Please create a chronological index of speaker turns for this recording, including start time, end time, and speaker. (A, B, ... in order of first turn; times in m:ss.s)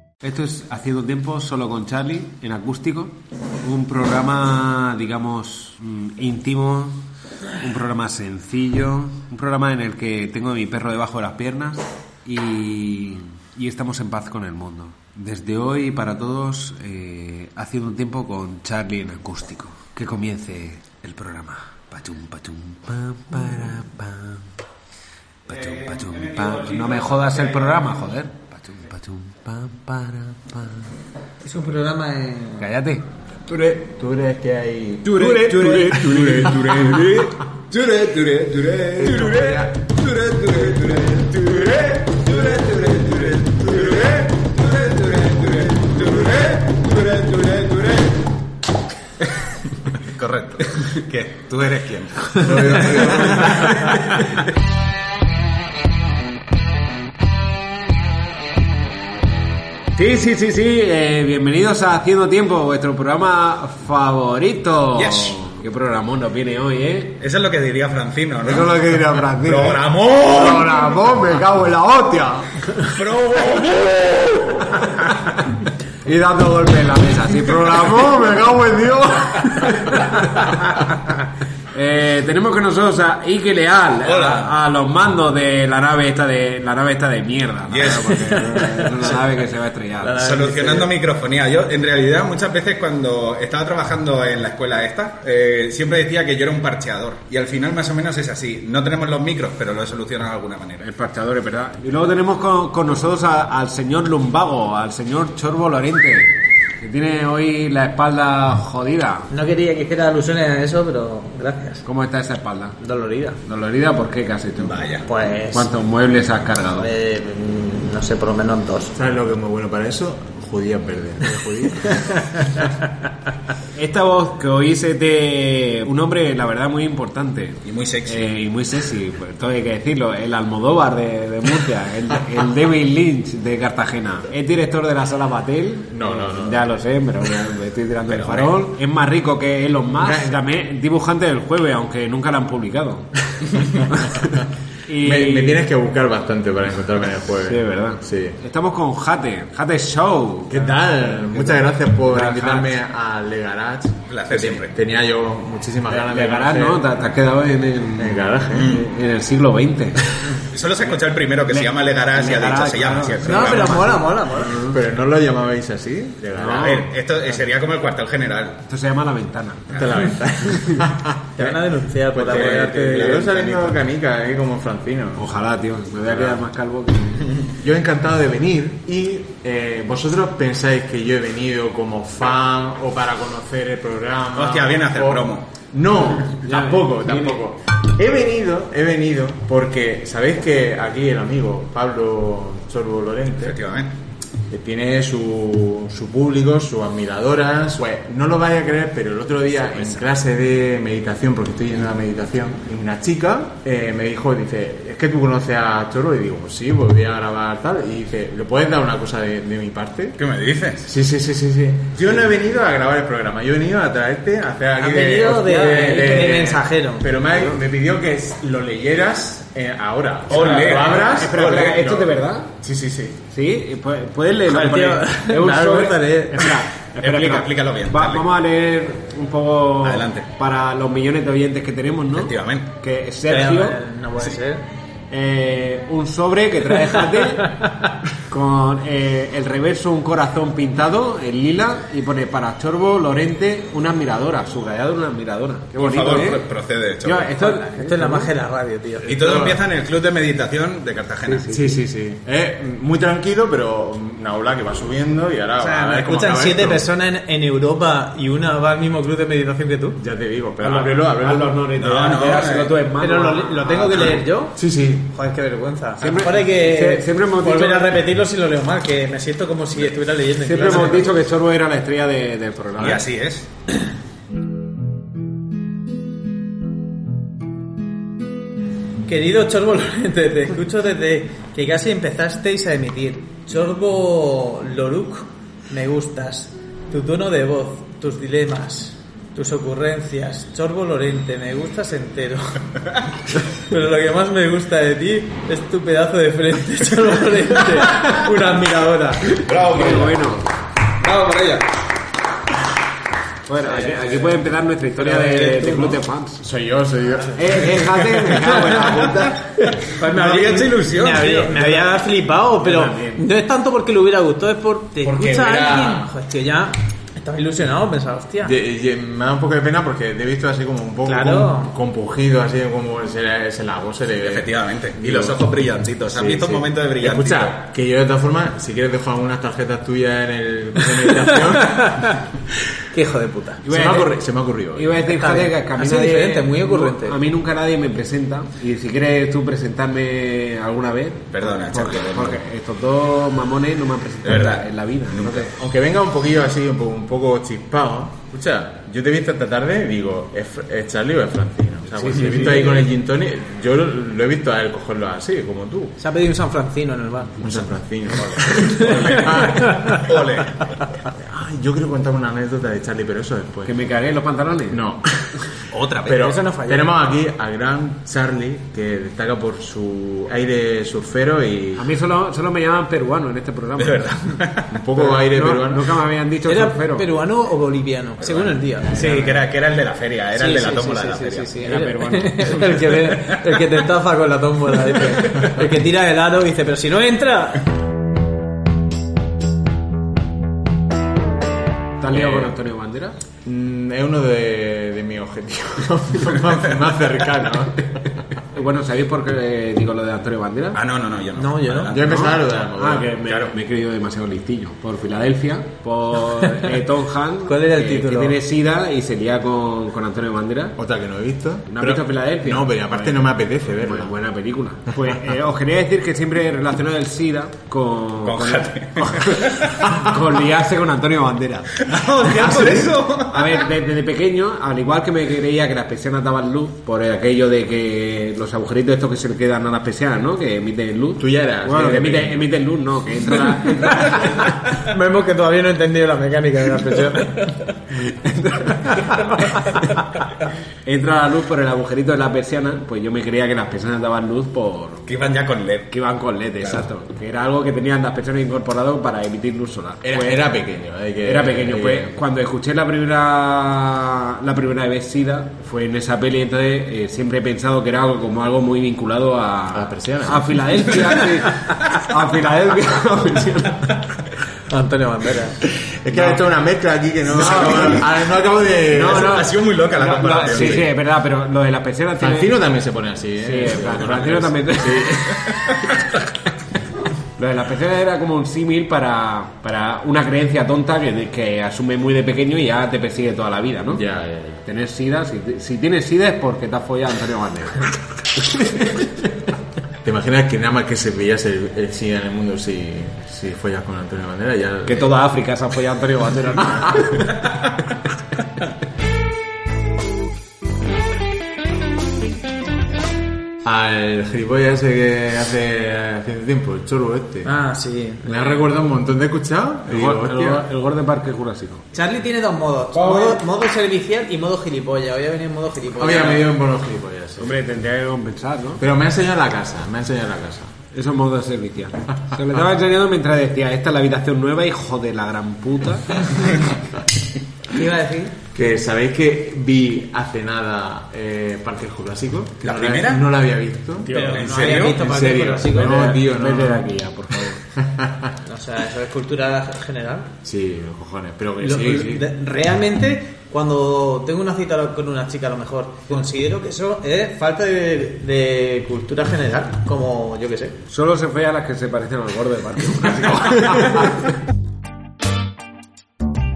0:00.2-0:07.0 A
0:07.6-0:24.5 A
0:25.5-0:30.9 A
0:25.5-0:27.9 B
0:31.4-0:32.7 C
0:32.6-0:33.1 A
0:33.5-0:37.2 D
0:35.0-0:44.0 A
0:39.0-0:39.8 D
0:41.0-0:44.3 D
0:44.6-0:48.0 A
0:45.9-0:46.6 D
0:49.9-0:54.2 B
0:52.4-0:54.0 D
0:53.0-0:53.9 A
0:59.9-1:07.2 A
1:04.9-1:05.4 B
1:07.2-1:10.8 B
1:08.4-1:12.6 A
1:12.8-1:14.4 B
1:16.0-1:20.8 A
1:21.7-1:30.2 A
1:24.0-1:24.5 B
1:27.7-1:29.1 B
1:30.0-1:30.9 C
1:30.2-1:40.9 B
1:40.8-1:49.3 A
1:49.3-1:51.8 C
1:51.8-1:52.8 A
1:52.8-1:53.4 C
1:53.4-1:54.8 A
1:54.6-1:55.0 B
1:55.0-1:55.7 C
1:55.5-1:56.9 A
1:56.8-1:58.9 C
1:58.9-2:02.6 D
2:03.7-2:25.7 A
2:07.6-2:08.2 B
2:15.9-2:16.6 D
2:18.1-2:18.5 B
2:20.0-2:20.3 D
2:25.0-2:28.4 D
2:27.4-2:32.8 A
2:30.5-2:37.1 D
2:34.1-2:34.7 B
2:35.9-2:40.4 A
2:38.0-2:38.8 D
2:38.5-2:38.8 B
2:40.5-2:43.9 B
2:41.5-2:44.8 A
2:43.2-2:44.5 C
2:44.5-2:47.4 D
2:46.4-2:46.8 A
2:46.4-2:48.6 B
2:48.7-2:49.9 A
2:49.7-2:50.1 B
2:49.7-2:51.6 D
2:51.4-2:53.5 C
2:52.1-2:55.2 D
2:52.3-2:53.0 B
2:55.2-2:57.4 A
2:56.1-2:56.4 D
2:57.6-3:13.6 D
3:04.3-3:05.5 B
3:06.4-3:07.4 A
3:13.4-3:13.9 B
3:14.5-3:30.2 D
3:30.2-3:30.9 B
3:30.8-3:43.2 D
3:34.8-3:37.6 C
3:40.3-3:41.1 B
3:40.4-3:42.5 A
3:43.3-3:53.8 A
3:44.5-3:46.5 C
3:47.0-3:48.3 B
3:49.8-3:50.3 B
3:52.1-3:52.7 B
3:53.3-3:54.6 C
3:55.1-3:57.6 A
3:57.4-3:57.7 C
3:58.3-4:06.4 A
4:05.8-4:07.4 B
4:07.0-4:08.3 A
4:07.4-4:09.1 C
4:09.0-4:09.6 D
4:09.0-4:11.5 B
4:11.2-4:11.8 A
4:11.5-4:16.8 D
4:15.6-4:20.0 C
4:20.0-4:21.7 D
4:20.6-4:24.1 A
4:21.8-4:22.8 B
4:23.0-4:24.6 C
4:23.8-4:25.1 D
4:25.1-4:31.2 C
4:26.0-4:28.0 A
4:30.4-4:33.0 A
4:32.8-4:33.5 B
4:39.0-4:52.6 C
4:53.6-4:59.3 C
4:59.3-5:00.3 B
4:59.5-5:00.5 A
5:00.9-5:01.7 B
5:03.4-5:06.4 A
5:03.8-5:04.4 B
5:05.0-5:06.0 C
5:06.4-5:09.0 D
5:07.3-5:09.4 A
5:09.8-5:18.5 C
5:09.9-5:11.8 B
5:12.6-5:13.3 A
5:15.0-5:16.1 D
5:18.4-5:25.4 D
5:21.0-5:21.7 C
5:24.2-5:27.6 B
5:26.0-5:32.0 D
5:31.1-5:32.2 C
5:32.9-5:33.6 C
5:33.6-5:45.5 A
5:33.7-5:35.0 D
5:35.0-5:37.2 C
5:41.3-5:42.4 B
5:44.2-5:45.5 B
5:45.5-5:56.0 D
5:51.9-5:52.8 A
5:56.0-5:57.4 C
5:57.4-6:00.1 D
5:58.5-6:00.7 B
5:58.6-6:00.0 C
6:01.1-6:03.7 D
6:03.6-6:04.8 A
6:04.7-6:05.4 D
6:05.7-6:06.3 B
6:06.1-6:11.9 D
6:06.1-6:06.9 C
6:11.8-6:14.3 A
6:13.8-6:14.8 B
6:14.7-6:16.0 D
6:15.0-6:17.1 A
6:16.4-6:19.0 C
6:18.2-6:21.5 B
6:20.3-6:27.6 C
6:21.6-6:22.6 A
6:32.0-6:33.2 A
6:32.1-6:32.5 D
6:33.4-6:38.0 D
6:38.5-6:40.8 A
6:40.7-6:42.3 B
6:41.4-6:41.9 C
6:41.9-6:43.1 D
6:42.0-6:50.8 A
6:43.2-6:43.5 B
6:46.4-6:46.8 C
6:47.4-6:48.4 C
6:50.8-6:54.1 D
6:51.7-7:01.8 A
6:58.2-6:59.9 B
7:01.8-7:03.6 B
7:02.3-7:03.0 D
7:03.2-7:14.5 A
7:11.2-7:12.5 D
7:14.7-7:17.4 C
7:17.9-7:19.6 A
7:20.8-7:25.0 A
7:25.1-7:25.9 B
7:25.9-7:30.5 A
7:26.6-7:26.8 B
7:30.0-7:32.2 D
7:31.2-7:44.0 A
7:39.7-7:41.2 D
7:44.7-7:45.6 C
7:46.0-7:49.6 D
7:46.1-7:46.4 A
7:47.3-7:48.1 A
7:47.4-7:47.9 B
7:48.9-7:50.9 B
7:48.9-7:52.6 A
7:50.4-7:50.8 D
7:52.2-7:55.7 D
7:53.4-7:55.9 A
7:57.4-8:04.0 A
8:03.9-8:04.6 D
8:04.6-8:09.1 A
8:10.0-8:15.0 D
8:14.8-8:17.3 A
8:23.6-8:27.5 D
8:27.4-8:28.6 C
8:28.2-8:30.6 D
8:29.9-8:31.9 A
8:31.9-8:36.5 C
8:32.9-8:33.4 A
8:36.0-8:37.6 D
8:37.4-8:38.8 A
8:38.8-8:40.8 D
8:40.9-8:46.3 A
8:47.7-8:48.3 C
8:48.5-8:56.9 D
8:52.6-8:53.3 B
8:54.0-8:56.2 C
8:54.1-8:54.4 A
8:54.1-8:55.0 B
8:55.7-8:57.6 A
8:57.5-8:58.3 D
8:58.4-9:00.3 C
9:00.4-9:02.3 D
9:01.6-9:10.8 C
9:10.9-9:14.3 A